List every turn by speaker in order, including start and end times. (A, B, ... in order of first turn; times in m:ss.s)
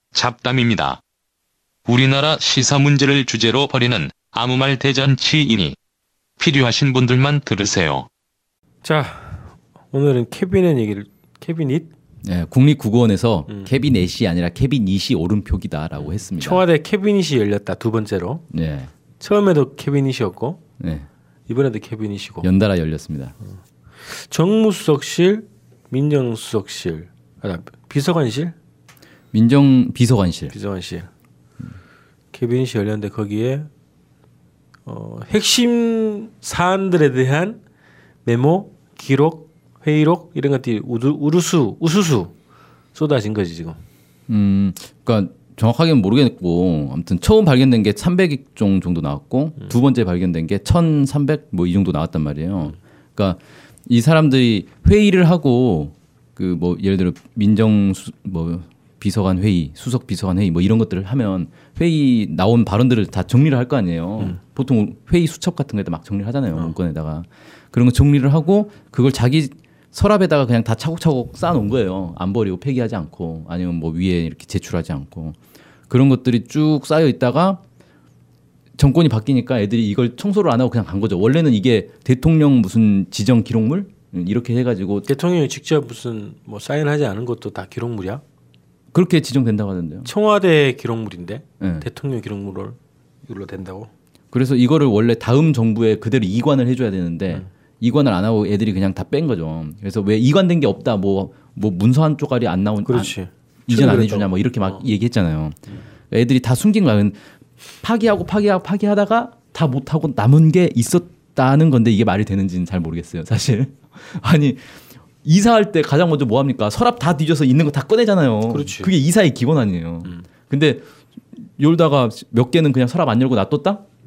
0:00.1-0:01.0 A
0:01.9-0:05.8 A
0:06.4-0:08.1 A
0:08.8-0:11.9 B
0:12.2-0:16.7 C
0:16.4-0:18.4 B
0:18.5-0:18.9 C
0:19.2-0:20.6 B
0:20.8-0:21.1 C
0:21.5-0:22.5 B
0:22.4-0:23.4 C
0:24.1-0:28.6 B
0:29.3-0:30.6 C
0:30.5-0:31.1 B
0:32.3-0:33.7 B
0:34.9-0:37.6 B
0:38.2-0:42.3 B
0:43.0-0:43.8 B
0:44.3-1:15.4 C
1:15.9-1:17.6 C
1:18.8-1:25.1 C
1:25.1-1:28.2 B
1:28.9-1:30.1 C
1:30.0-1:33.9 B
1:31.6-1:31.9 C
1:34.3-1:43.2 C
1:42.8-1:44.8 B
1:43.7-1:45.6 C
1:46.1-1:47.2 C
1:47.8-1:54.6 C
1:55.2-2:03.8 C
1:58.5-1:58.9 B